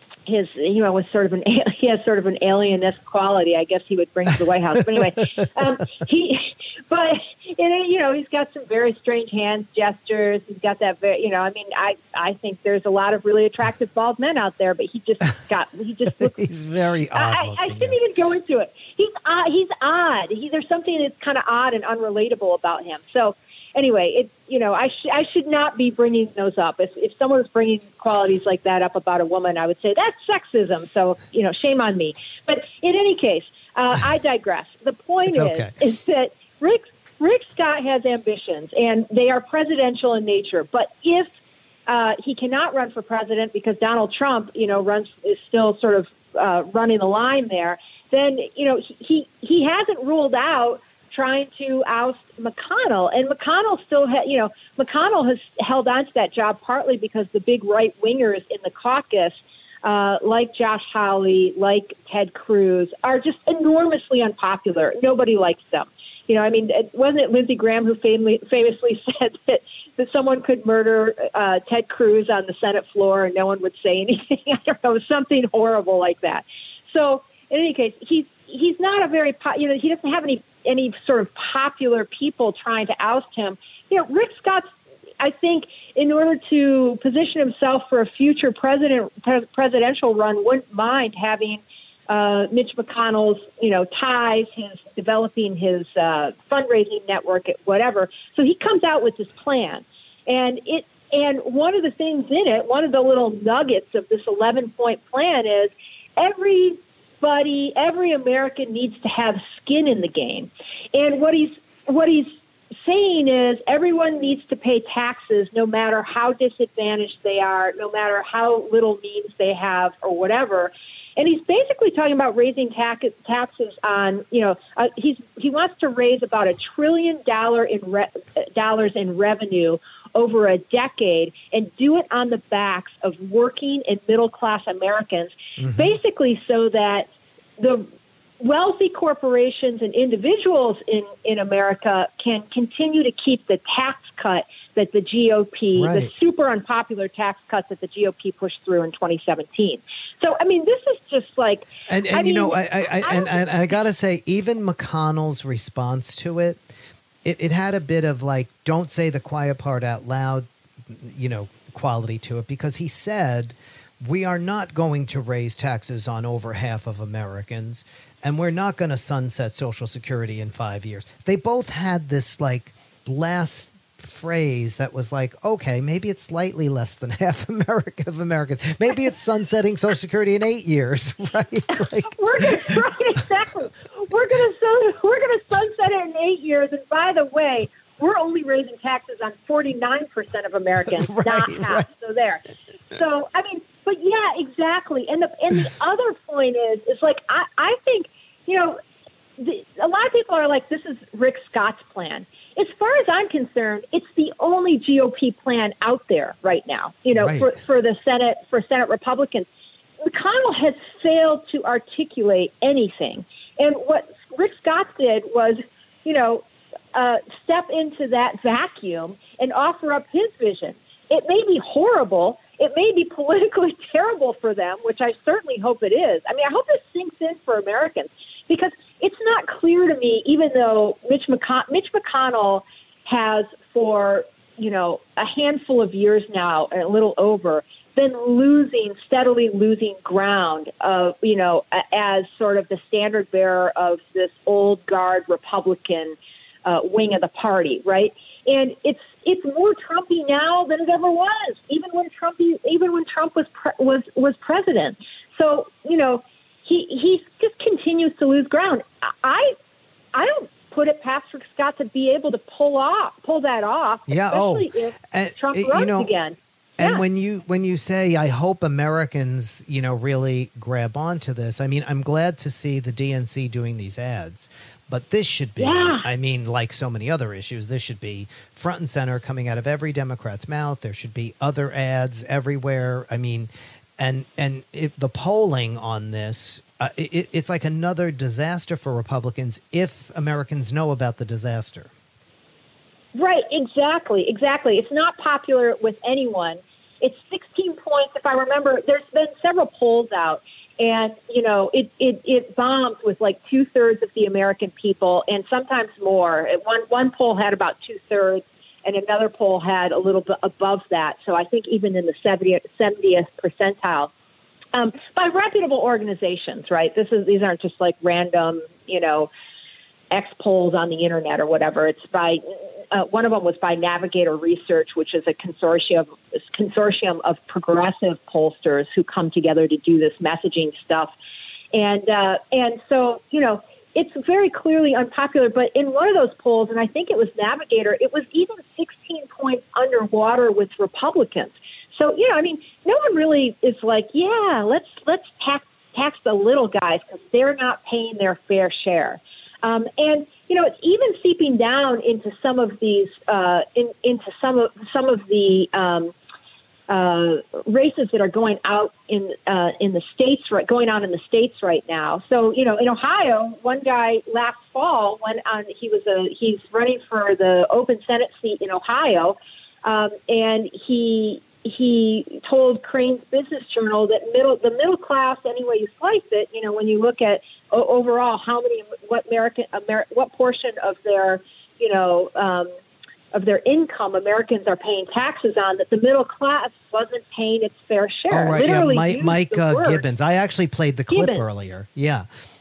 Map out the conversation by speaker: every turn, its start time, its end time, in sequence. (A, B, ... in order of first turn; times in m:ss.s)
0:00.3-0:16.5 A
0:16.3-0:18.0 B
0:17.1-0:41.3 A
0:35.3-0:35.7 B
0:41.9-1:24.6 A
1:25.2-2:17.9 A
2:15.6-2:15.9 B
2:18.4-2:33.5 A
2:25.8-2:26.1 B
2:31.9-2:36.7 B
2:37.2-3:02.8 B
3:02.0-3:18.8 A
3:11.0-3:11.9 B
3:19.4-3:29.5 A
3:27.2-3:27.5 B
3:30.0-4:19.5 A
4:20.2-4:27.0 A
4:24.1-4:26.1 B
4:26.8-4:51.9 B
4:35.6-4:36.0 A
4:53.2-5:14.1 A
5:14.7-5:19.3 A
5:20.1-5:31.1 A
5:31.7-5:56.2 A
5:56.9-6:22.7 A
6:23.3-6:30.0 A
6:28.3-6:32.3 B
6:31.1-6:31.4 A